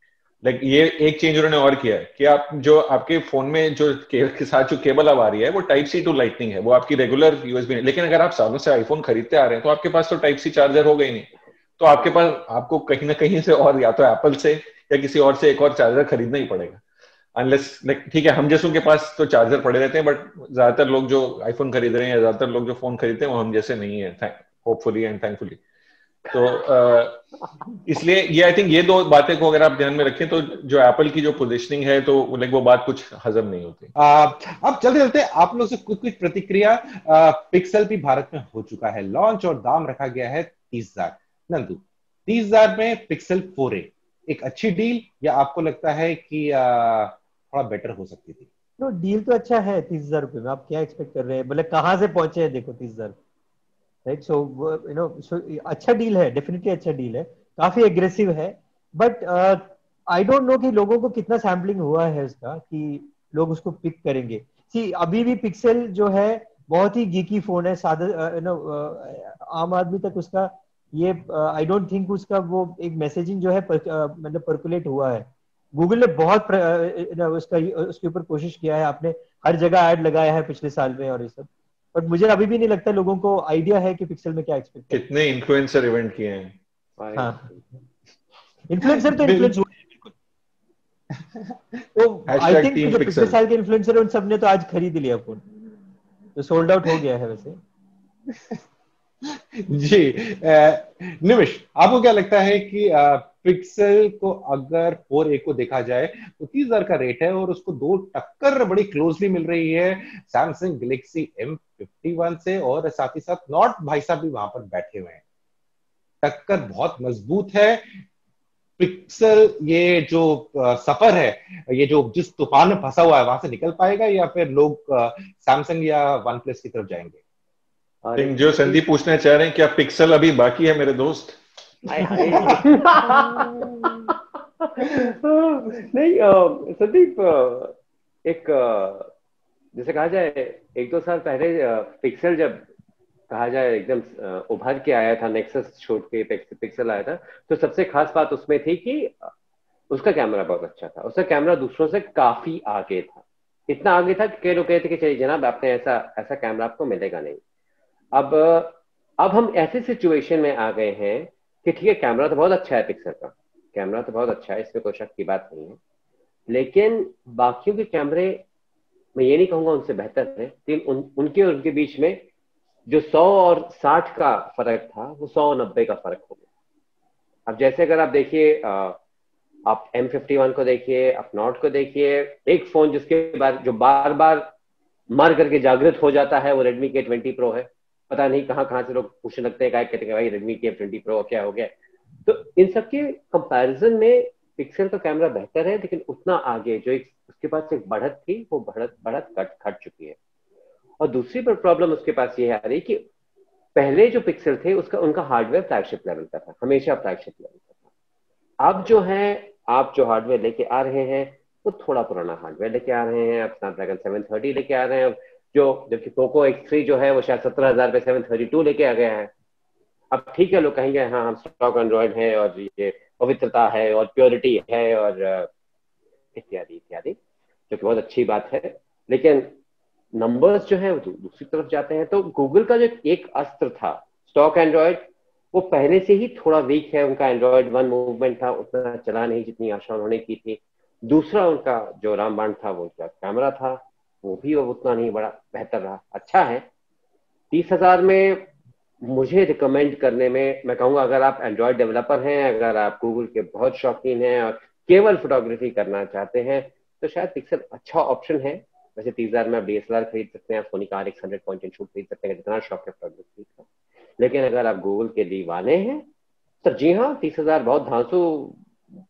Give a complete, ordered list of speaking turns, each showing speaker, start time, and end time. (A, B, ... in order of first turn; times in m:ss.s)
0:00.4-0:16.8 A
0:17.4-0:25.6 A
0:26.3-0:27.2 A
0:27.8-0:33.9 A
0:34.0-0:48.5 B
0:48.8-0:53.2 C
0:54.0-1:25.0 C
1:24.9-1:26.6 A
1:27.0-1:27.6 D
1:27.2-1:27.5 C
1:28.7-1:29.6 C
1:29.2-1:29.5 B
1:31.2-1:31.8 B
1:32.0-1:35.4 C
1:32.3-1:33.4 A
1:36.4-1:37.6 C
1:38.3-1:38.6 B
1:39.2-1:55.2 B
1:56.2-1:58.0 B
1:58.8-2:07.2 B
2:08.0-2:08.8 D
2:08.2-2:11.4 A
2:11.9-2:19.1 D
2:12.1-2:12.5 A
2:19.7-2:22.6 D
2:23.3-2:29.3 D
2:29.9-2:37.4 D
2:38.1-2:45.8 D
2:46.5-2:48.4 D
2:49.2-2:52.2 D
2:52.9-2:56.4 D
2:57.5-2:59.0 D
2:59.7-3:04.5 D
3:05.1-3:11.7 D
3:12.2-3:20.2 D
3:21.0-3:23.0 D
3:23.8-3:27.7 D
3:28.6-3:39.3 D
3:40.1-3:45.5 D
3:46.4-3:47.2 D
3:47.7-3:49.6 D
3:50.1-4:06.6 D
4:07.5-4:08.5 D
4:09.0-4:23.6 D
4:24.2-4:26.1 D
4:26.6-4:28.6 D